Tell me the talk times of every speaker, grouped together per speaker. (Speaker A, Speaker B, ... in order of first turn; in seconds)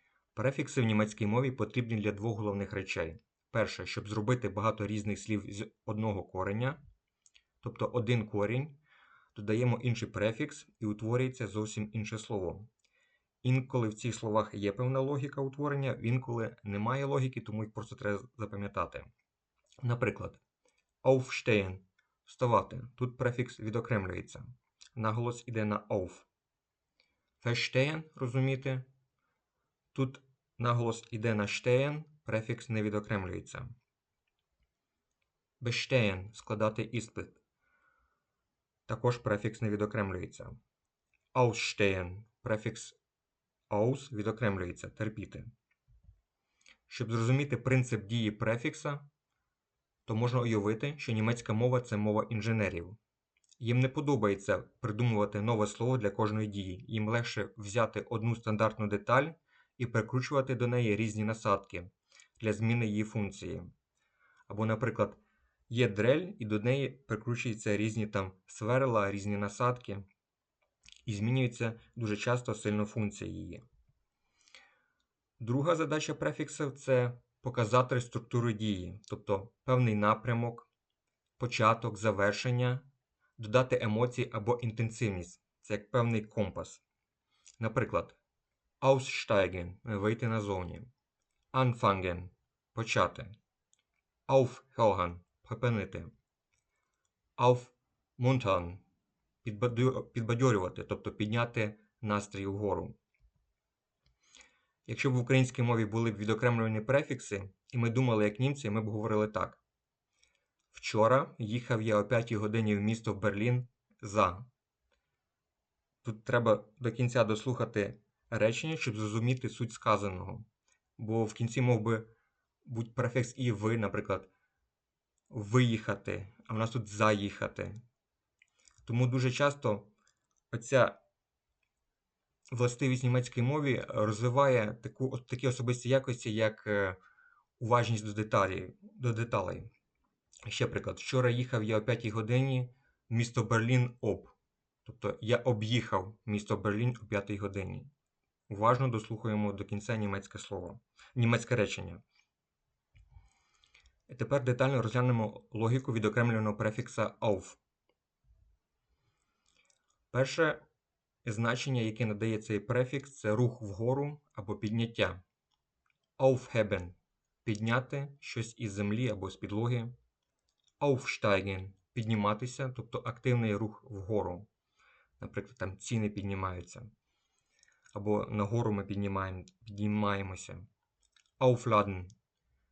Speaker A: 0.3-6.8, 7.6-8.8, 9.3-12.7, 13.4-19.1, 19.8-20.4, 21.0-26.2, 27.4-28.9, 29.9-33.8, 35.6-37.4, 38.9-40.5, 41.3-43.0, 43.7-45.5, 46.9-49.0, 50.0-53.0, 53.6-63.7, 64.5-70.0, 71.0-73.6, 75.4-80.7, 81.4-82.8, 83.4-86.8, 87.6-88.2, 88.8-90.9, 91.5-93.3, 94.3-96.1, 97.4-98.8, 99.4-103.0, 104.9-109.6, 110.7-114.5, 116.0-122.1, 122.6-124.3, 125.3-127.8, 128.8-129.9, 130.5-131.0, 132.5-137.0, 137.6-139.7, 140.4-144.3, 144.8-147.9, 148.5-152.0, 154.1-157.6, 160.1-160.6, 161.2-165.2, 166.2-169.9, 170.8-174.5, 175.2-176.9, 177.9-180.6, 181.4-182.1